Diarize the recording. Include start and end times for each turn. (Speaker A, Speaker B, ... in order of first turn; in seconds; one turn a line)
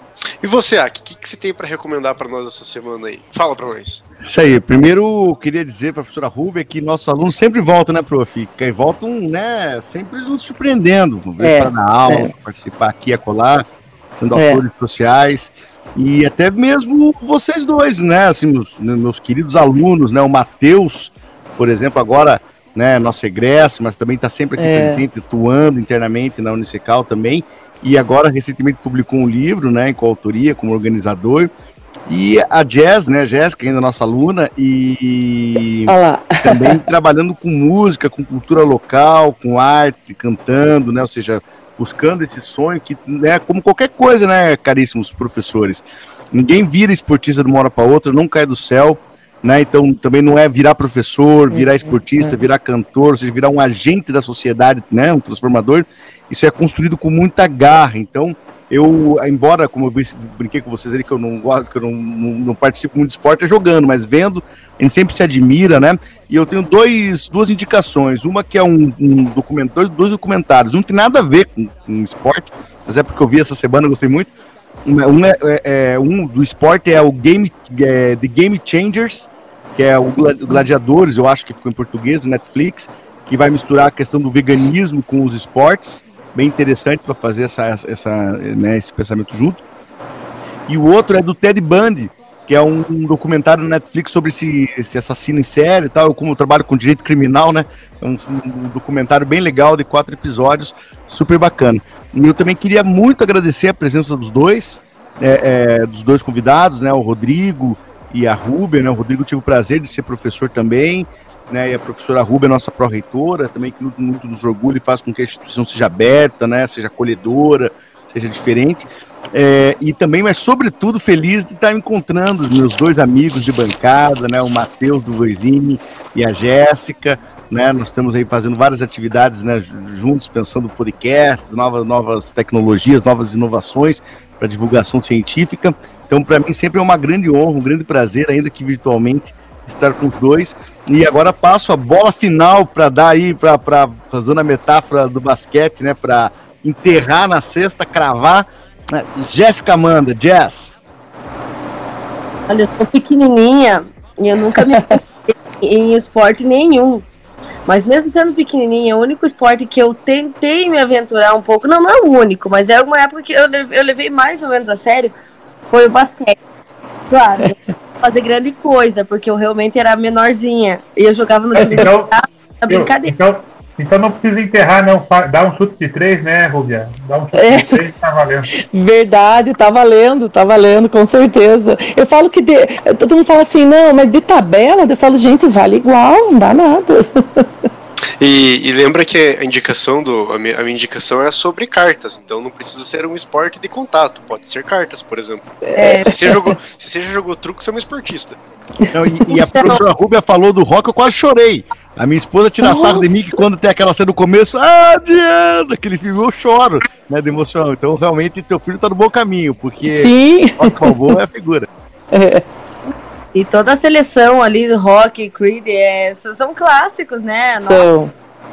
Speaker A: 0.4-4.0
Speaker B: 4.2-31.5
Speaker C: 11.4-12.3
Speaker C: 14.3-14.6
Speaker C: 24.6-25.0
Speaker B: 32.1-74.3
Speaker C: 35.9-36.8
Speaker C: 51.5-52.4
Speaker B: 74.9-89.6
Speaker B: 90.7-150.8
Speaker D: 152.5-157.1
Speaker D: 157.7-165.1
Speaker D: 165.7-166.4
Speaker D: 167.1-173.1
Speaker E: 171.6-172.1
Speaker E: 172.7-178.5
Speaker C: 177.3-177.8
Speaker C: 178.6-187.5
Speaker A: 188.2-198.4
Speaker D: 195.8-196.2
Speaker C: 195.8-196.5
Speaker B: 198.9-211.7
Speaker D: 199.4-199.8
Speaker C: 202.6-203.1
Speaker C: 209.9-211.2
Speaker C: 212.1-212.4
Speaker D: 212.9-218.1
Speaker C: 217.6-218.1